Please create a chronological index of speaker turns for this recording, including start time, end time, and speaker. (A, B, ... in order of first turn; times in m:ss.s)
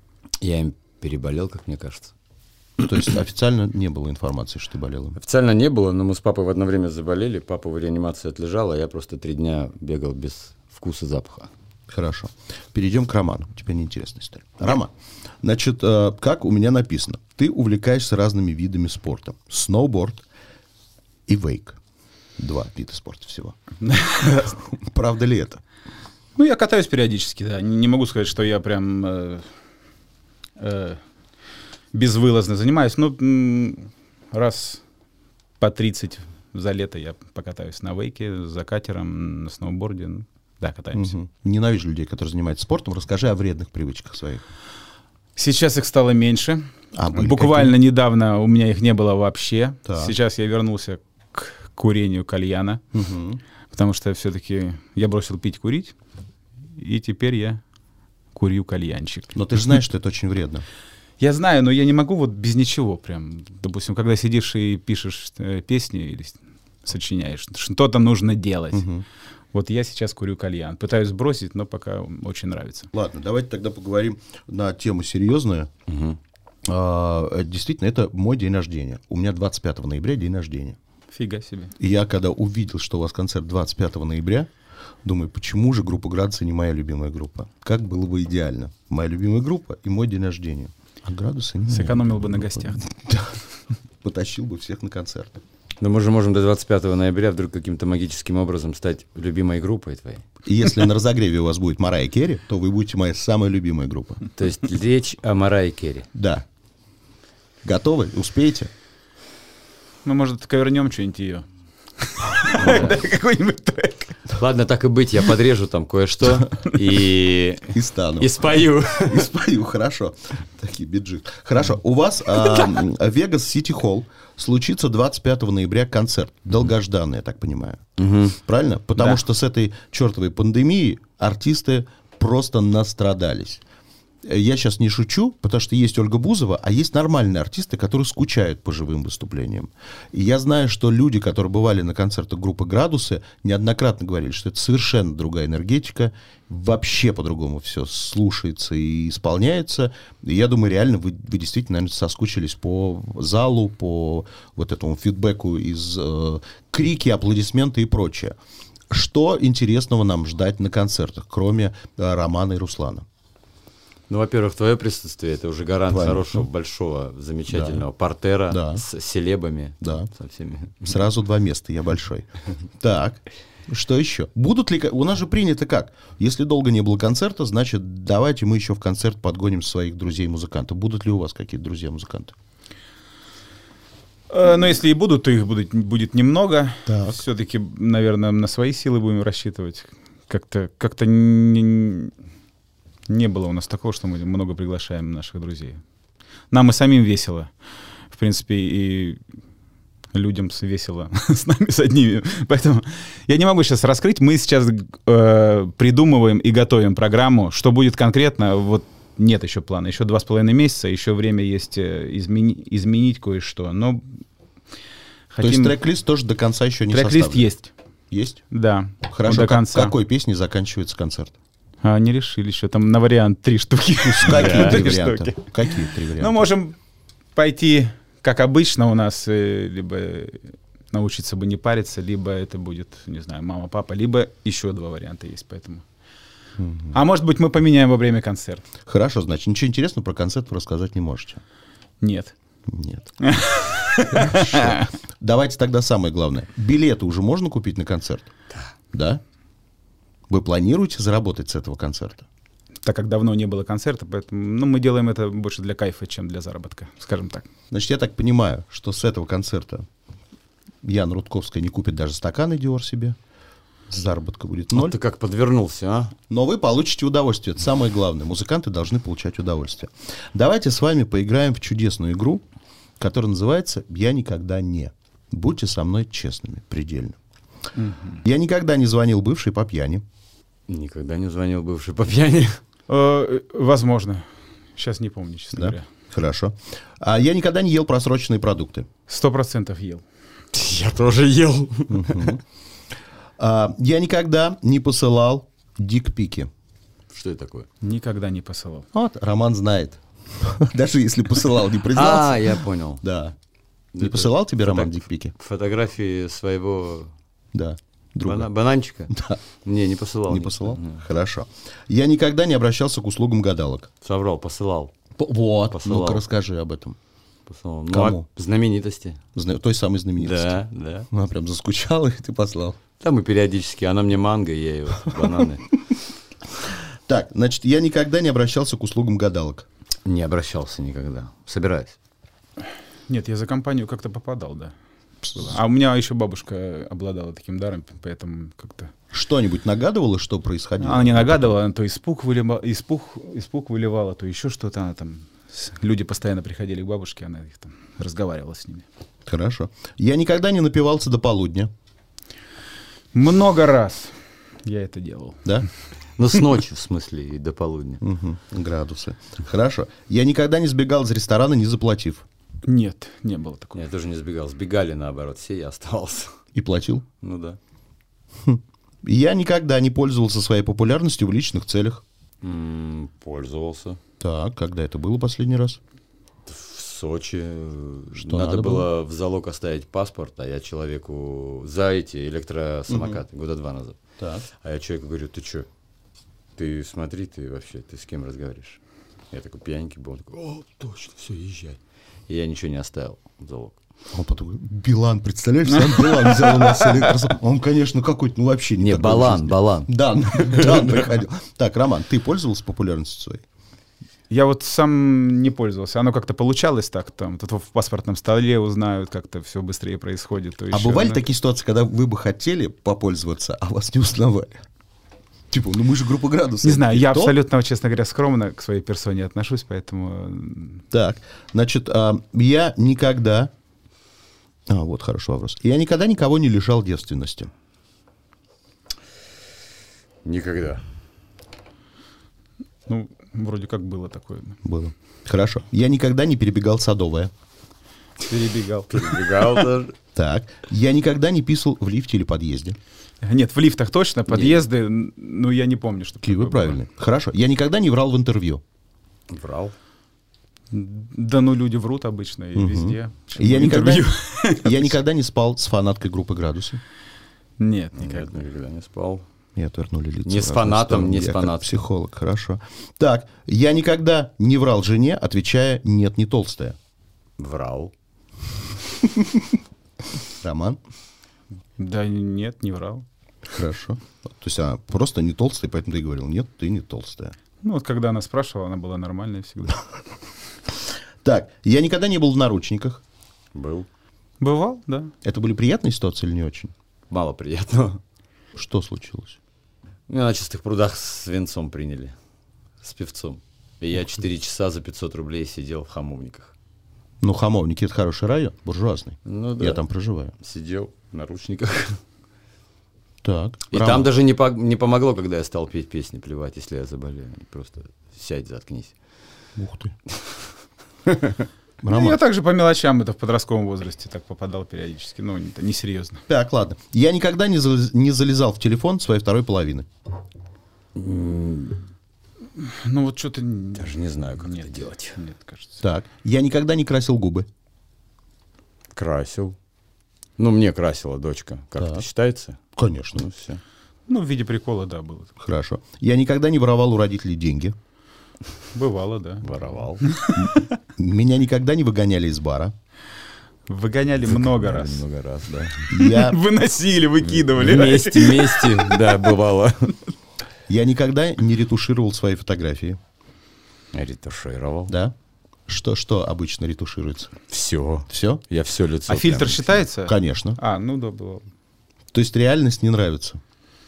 0:00.4-0:02.1 A
0:02.8-0:05.2 B
0:05.2-0:11.5 A
0:11.9-0:20.2 B
0:21.3-0:21.8 B
0:22.4-0:23.6 B
0:23.8-0:24.6 C
0:24.4-0:25.6 B
0:26.4-0:29.4 C
0:30.6-0:31.0 C
0:31.9-0:34.8 C
0:35.6-0:41.1 C
0:40.9-0:44.4 B
0:45.4-0:52.8 C
0:46.9-0:47.8 B
0:49.9-0:50.2 B
0:52.9-0:53.4 B
0:53.7-0:55.9 C
0:56.8-0:57.6 C
0:58.4-0:59.5 C
0:59.4-1:00.6 B
1:01.2-1:08.9 C
1:08.7-1:09.0 B
1:09.5-1:12.9 C
1:12.9-1:15.7 B
1:15.9-1:16.2 A
1:16.7-1:20.8 B
1:21.1-1:21.7 C
1:21.8-1:24.5 B
1:25.0-1:33.4 B
1:31.7-1:32.8 C
1:34.0-1:35.4 B
1:35.8-1:40.3 A
1:40.4-1:44.2 B
1:44.4-1:46.1 A
1:46.1-1:46.4 B
1:47.6-1:48.7 B
1:50.0-1:51.5 C
1:52.0-1:54.2 C
1:52.5-1:53.0 A
1:54.4-1:59.3 A
1:57.7-2:13.6 B
2:08.0-2:08.4 A
2:14.2-2:38.4 B
2:38.9-2:43.0 B
2:44.1-2:51.0 A
2:45.9-2:46.5 B
2:47.5-2:47.8 B
2:48.5-2:48.8 B
2:49.8-2:50.1 B
2:50.8-2:52.3 B
2:52.8-3:02.3 B
3:04.3-3:12.1 C
3:06.9-3:07.2 B
3:13.1-3:15.8 C
3:16.5-3:17.5 C
3:18.1-3:19.2 C
3:20.1-3:34.1 C
3:35.3-3:35.8 C
3:35.4-3:37.5 B
3:36.9-3:37.7 C
3:38.1-3:38.4 B
3:38.5-3:39.9 C
3:39.1-3:41.4 B
3:41.8-3:45.5 C
3:44.1-3:46.5 B
3:44.2-3:44.9 A
3:46.2-3:46.8 C
3:47.4-3:55.8 C
3:56.6-3:57.0 B
3:56.9-3:58.6 C
3:58.8-4:01.4 B
4:02.0-4:02.4 C
4:02.7-4:03.1 B
4:03.2-4:04.9 C
4:04.1-4:08.3 B
4:08.9-4:09.2 B
4:10.3-4:12.3 B
4:12.8-4:17.5 C
4:17.7-4:19.9 B
4:20.8-4:23.2 B
4:23.9-4:25.0 B
4:24.7-4:26.1 A
4:26.3-4:32.4 B
4:33.0-4:37.2 B
4:37.8-4:38.2 C
4:38.2-4:40.0 B
4:40.7-4:42.6 A
4:42.9-4:45.9 C
4:45.5-4:48.9 B
4:49.1-4:50.0 C
4:50.5-4:52.3 A
4:51.9-4:52.4 B
4:53.4-4:56.5 B
4:57.1-4:57.7 A
4:57.8-4:58.9 C
4:58.9-5:03.4 B
5:01.9-5:03.0 A
5:03.9-5:07.1 A
5:04.0-5:05.3 B
5:07.5-5:08.5 B
5:08.2-5:11.0 A
5:09.1-5:09.4 B
5:10.3-5:13.9 B
5:14.0-5:14.9 A
5:15.2-5:17.0 B
5:15.7-5:16.2 A
5:17.5-5:19.2 A
5:17.9-5:18.2 B
5:19.3-5:22.8 B
5:20.2-5:21.1 A
5:23.0-5:25.7 A
5:27.1-5:29.7 B
5:30.0-5:32.0 A
5:33.1-5:34.7 C
5:35.4-5:38.9 C
5:39.1-5:41.5 B
5:40.8-5:48.8 C
5:49.3-5:51.7 B
5:53.1-5:55.5 C
5:56.2-5:58.0 A
5:58.0-6:02.2 B
6:02.6-6:03.8 C
6:03.7-6:06.4 A
6:06.5-6:07.0 B
6:07.2-6:07.6 A
6:08.4-6:12.0 B
6:12.4-6:14.0 A
6:14.2-6:15.8 B
6:16.5-6:25.7 A
6:18.2-6:18.9 B
6:22.9-6:23.2 B
6:24.2-6:24.4 B
6:26.6-6:28.8 A
6:29.3-6:33.8 A
6:34.1-6:43.4 B
6:35.8-6:37.2 C
6:38.8-6:40.8 A
6:44.3-6:51.2 C
6:50.7-6:54.6 B
6:55.5-6:57.4 B
6:56.6-7:00.8 C
7:00.9-7:03.5 B
7:04.7-7:07.5 B
7:10.2-7:10.8 A
7:12.9-7:14.6 C
7:14.6-7:17.3 B
7:18.2-7:19.2 C
7:18.9-7:20.0 A
7:20.2-7:22.8 B
7:23.2-7:26.8 C
7:24.3-7:24.6 A
7:26.2-7:28.6 B
7:29.3-7:29.8 A
7:30.7-7:34.9 C
7:32.6-7:36.8 B
7:37.6-7:38.4 C
7:38.0-7:39.2 A
7:39.6-7:46.8 B
7:40.3-7:41.8 A
7:47.4-7:47.9 A
7:50.4-7:50.8 B
7:51.8-7:53.0 C
7:53.5-7:57.4 B
7:57.6-7:59.8 C
8:01.2-8:03.0 B
8:03.5-8:03.9 A
8:04.4-8:05.1 C
8:05.2-8:06.7 B
8:07.1-8:08.0 A
8:08.6-8:09.4 B
8:10.1-8:12.2 A
8:12.8-8:16.5 A
8:17.2-8:20.3 B
8:19.2-8:19.8 A
8:20.4-8:22.0 A
8:23.2-8:24.1 B
8:23.7-8:28.9 A
8:29.6-8:29.9 B
8:31.1-8:31.4 A
8:31.8-8:32.2 B
8:31.9-8:36.2 C
8:36.3-8:39.9 B
8:41.0-8:41.8 A
8:42.6-8:45.8 C
8:43.7-8:45.2 A
8:45.8-8:47.5 B
8:49.0-8:49.6 A
8:50.4-8:52.6 A
8:51.8-8:52.0 B
8:52.8-8:53.3 B
8:53.2-8:53.6 A
8:54.1-8:55.3 C
8:55.4-8:57.8 B
8:58.7-9:00.7 C
8:59.4-9:00.1 A
9:00.4-9:02.7 B
9:03.7-9:05.0 C
9:04.2-9:05.9 A
9:05.9-9:06.4 B
9:06.0-9:09.3 C
9:07.2-9:10.0 A
9:10.7-9:13.0 B
9:13.9-9:14.9 A
9:14.9-9:15.2 B
9:15.7-9:17.3 B
9:17.5-9:19.8 A
9:18.1-9:18.4 B
9:19.1-9:21.4 C
9:20.0-9:20.6 B
9:22.1-9:23.4 B